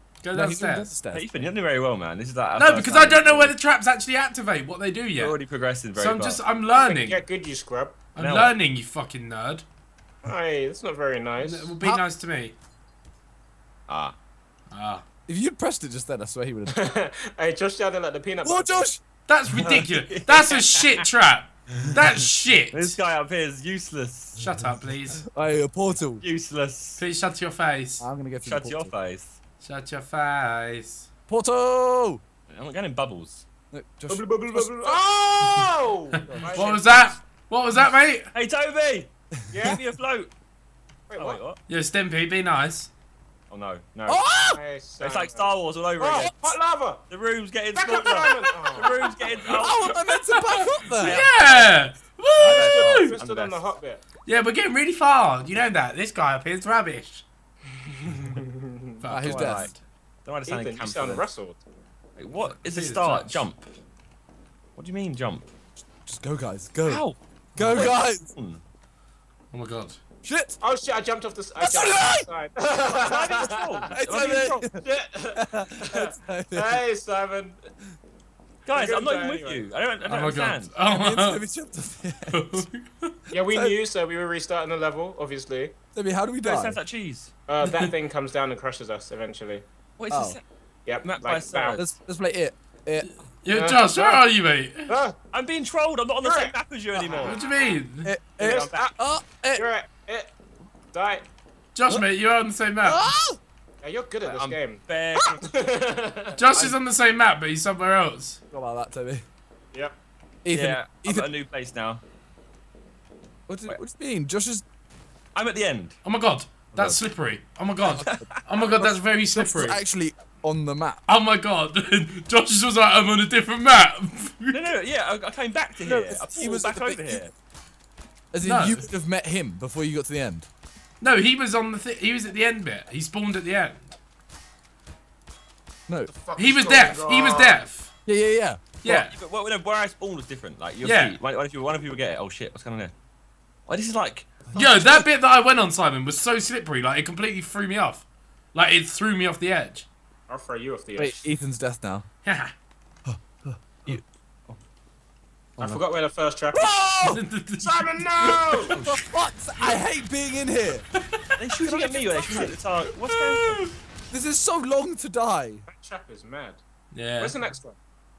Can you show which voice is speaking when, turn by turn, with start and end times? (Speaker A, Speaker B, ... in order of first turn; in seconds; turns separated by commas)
Speaker A: 0.2-0.9, Speaker B: 0.3-1.3, Speaker C: 1.1-3.5, Speaker A: 2.6-5.4, Speaker C: 5.2-6.4, Speaker A: 6.0-7.2, Speaker D: 6.8-8.0, Speaker A: 8.2-9.7, Speaker C: 8.2-8.5, Speaker D: 10.2-11.7, Speaker A: 11.4-12.6, Speaker C: 13.9-14.2, Speaker A: 14.7-15.0, Speaker B: 15.3-16.8, Speaker D: 16.7-18.9, Speaker B: 18.4-19.0, Speaker A: 19.3-23.0, Speaker C: 19.6-20.8, Speaker C: 22.7-24.6, Speaker A: 24.4-25.2, Speaker B: 25.2-26.2, Speaker C: 26.2-27.0, Speaker A: 27.0-28.1, Speaker B: 28.0-28.9, Speaker C: 28.4-29.4, Speaker A: 29.6-31.1, Speaker B: 31.3-32.2, Speaker C: 32.5-33.5, Speaker B: 33.7-35.0, Speaker D: 34.1-37.1, Speaker A: 36.2-38.3, Speaker C: 38.3-40.3, Speaker D: 39.5-39.8, Speaker D: 41.1-41.4, Speaker C: 41.1-41.6, Speaker A: 41.7-42.9, Speaker C: 43.5-44.2, Speaker B: 44.1-44.6, Speaker D: 44.5-47.0, Speaker C: 45.0-46.4, Speaker C: 47.1-49.9, Speaker D: 47.8-49.5, Speaker A: 49.5-53.1, Speaker B: 49.5-51.2, Speaker C: 51.0-51.8, Speaker C: 52.4-53.6, Speaker D: 52.4-54.0, Speaker A: 54.3-57.2, Speaker D: 57.9-59.0, Speaker A: 59.0-59.8, Speaker B: 59.1-59.7, Speaker C: 59.1-59.7, Speaker C: 60.2-61.2, Speaker D: 60.5-61.6, Speaker C: 62.2-63.6, Speaker A: 62.4-63.6, Speaker C: 64.8-65.5, Speaker B: 66.0-67.0, Speaker C: 66.9-68.6, Speaker B: 67.5-68.3, Speaker A: 69.5-70.0, Speaker B: 70.2-70.6, Speaker D: 70.6-73.7, Speaker B: 71.6-72.3, Speaker C: 73.0-74.7, Speaker B: 73.9-74.8, Speaker D: 74.7-77.7, Speaker B: 75.3-76.8, Speaker C: 78.7-80.7, Speaker D: 78.7-79.7, Speaker A: 80.0-81.4, Speaker B: 80.9-82.7, Speaker A: 82.3-83.2, Speaker D: 83.3-85.7, Speaker B: 85.9-86.8, Speaker C: 86.4-87.3, Speaker D: 87.5-89.6, Speaker A: 87.6-87.9, Speaker C: 90.0-90.4, Speaker B: 90.1-90.4, Speaker D: 90.9-91.8, Speaker C: 91.0-91.9, Speaker B: 91.8-93.1, Speaker A: 93.1-94.9, Speaker D: 93.5-94.2, Speaker D: 94.9-95.2, Speaker C: 95.3-97.5, Speaker D: 96.2-97.8, Speaker A: 97.2-98.1, Speaker B: 98.0-99.7, Speaker C: 98.4-98.8, Speaker D: 98.4-99.0, Speaker D: 99.5-100.3, Speaker D: 100.9-101.3, Speaker A: 101.8-103.1, Speaker B: 102.8-103.4, Speaker D: 103.8-106.4, Speaker C: 104.2-105.5, Speaker A: 106.4-108.4, Speaker B: 108.5-109.2, Speaker B: 110.4-111.3, Speaker C: 110.5-112.0, Speaker B: 113.5-114.6, Speaker C: 115.3-116.0, Speaker A: 116.0-119.8, Speaker B: 117.8-121.0, Speaker C: 118.1-118.4, Speaker A: 121.1-124.7, Speaker C: 124.5-127.3, Speaker B: 125.8-127.2, Speaker B: 128.3-130.5, Speaker A: 128.4-128.8, Speaker A: 131.0-133.9, Speaker D: 136.1-137.6, Speaker A: 136.4-137.9, Speaker B: 138.1-138.8, Speaker A: 138.8-139.1, Speaker C: 138.8-142.9, Speaker A: 140.8-141.2, Speaker C: 143.7-144.3, Speaker B: 144.5-145.1, Speaker A: 144.6-149.9, Speaker D: 150.3-151.3, Speaker B: 151.0-152.1, Speaker A: 152.2-152.5, Speaker B: 153.1-154.0, Speaker C: 153.9-154.6, Speaker D: 155.6-156.8, Speaker B: 156.5-157.2, Speaker A: 157.1-158.8, Speaker D: 157.6-158.8, Speaker C: 158.7-159.0, Speaker B: 158.8-160.9, Speaker C: 161.4-163.7, Speaker B: 161.6-162.5, Speaker A: 163.0-163.7, Speaker B: 164.1-165.6, Speaker D: 165.7-166.6, Speaker A: 166.9-167.3, Speaker D: 167.2-167.8